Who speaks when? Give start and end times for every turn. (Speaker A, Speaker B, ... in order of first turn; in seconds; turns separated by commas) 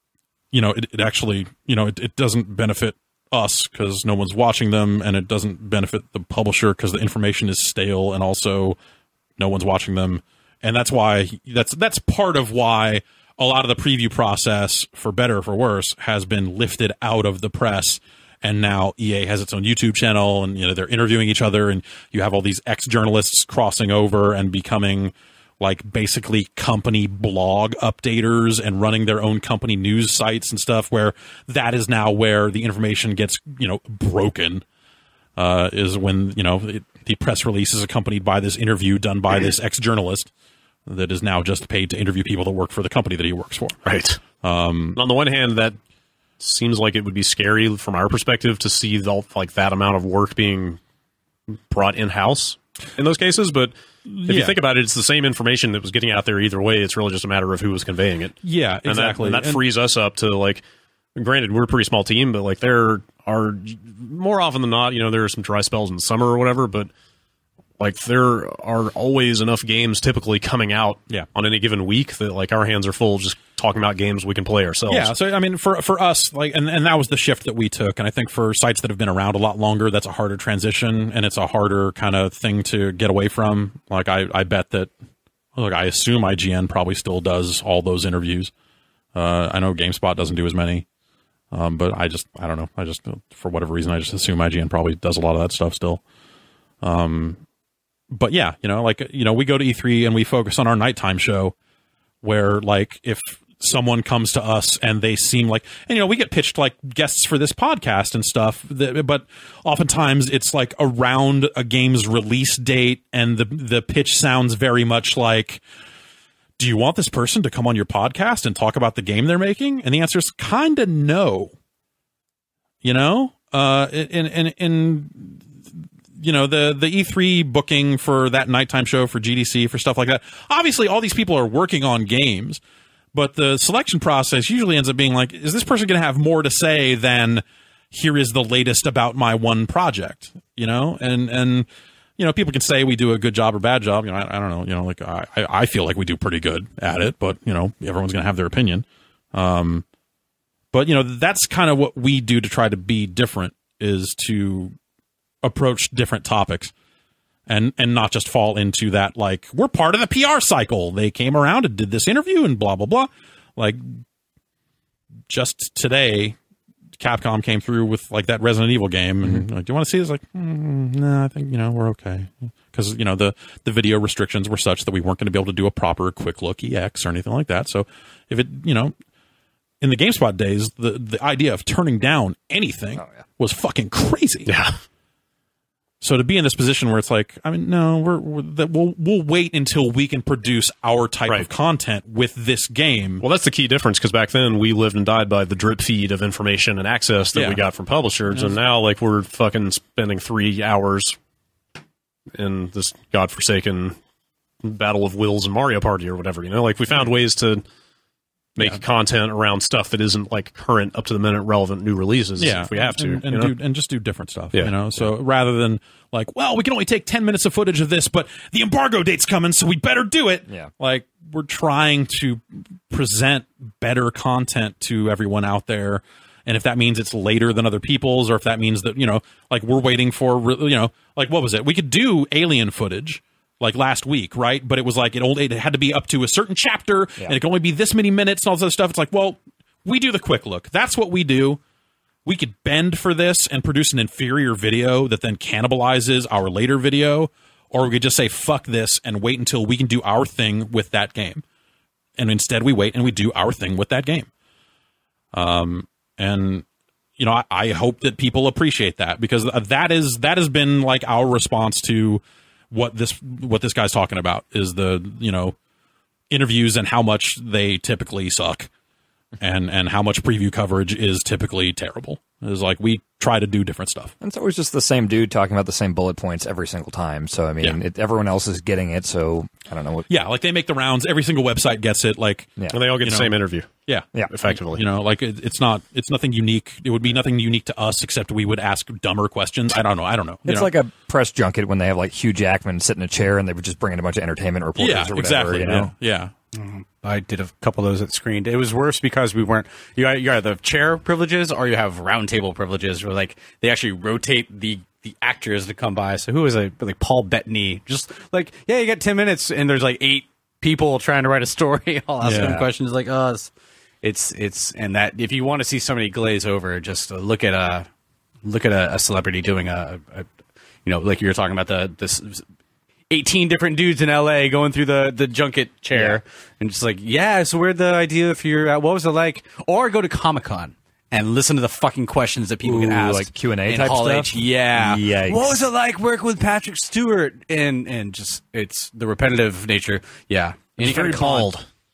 Speaker A: 0.5-8.8, Speaker A: 9.4-34.6, Speaker A: 35.4-40.3, Speaker A: 40.9-43.8, Speaker B: 43.8-44.2, Speaker A: 44.4-45.0, Speaker B: 44.9-45.8, Speaker B: 46.4-50.8, Speaker B: 51.7-53.7, Speaker A: 54.1-54.6, Speaker B: 54.2-60.6, Speaker A: 58.4-59.6, Speaker B: 61.1-66.9, Speaker B: 67.8-75.1, Speaker A: 74.9-84.9, Speaker A: 85.5-88.5, Speaker A: 89.1-90.8, Speaker A: 91.5-96.0, Speaker A: 96.8-97.4, Speaker A: 98.1-101.5, Speaker A: 102.2-115.6, Speaker A: 116.6-121.5, Speaker A: 122.8-125.5, Speaker A: 126.2-132.6, Speaker A: 133.1-141.7, Speaker A: 142.2-149.8, Speaker A: 150.7-154.7, Speaker A: 155.4-156.7, Speaker A: 157.5-164.0, Speaker A: 165.3-166.3, Speaker A: 167.0-178.9, Speaker A: 179.8-184.5, Speaker B: 184.4-184.8, Speaker A: 186.0-193.2, Speaker B: 193.2-201.2, Speaker A: 197.3-197.6, Speaker A: 198.3-198.6, Speaker B: 202.3-203.9, Speaker B: 204.6-207.6, Speaker B: 208.5-213.5, Speaker A: 212.4-241.6, Speaker B: 214.5-215.1, Speaker A: 242.2-251.4, Speaker A: 252.2-254.3, Speaker A: 255.3-256.6, Speaker A: 257.2-265.5, Speaker A: 266.3-268.7, Speaker A: 269.4-274.1, Speaker C: 274.2-280.1, Speaker A: 280.1-290.7, Speaker B: 282.7-283.7, Speaker B: 284.3-284.9, Speaker C: 290.4-295.9, Speaker A: 294.8-296.3, Speaker D: 296.5-313.5, Speaker A: 312.2-312.6, Speaker C: 312.2-312.7, Speaker D: 314.0-317.9, Speaker D: 318.4-320.3, Speaker D: 320.8-322.4, Speaker D: 323.1-341.5, Speaker C: 325.9-326.2, Speaker C: 332.6-335.6, Speaker B: 340.8-341.6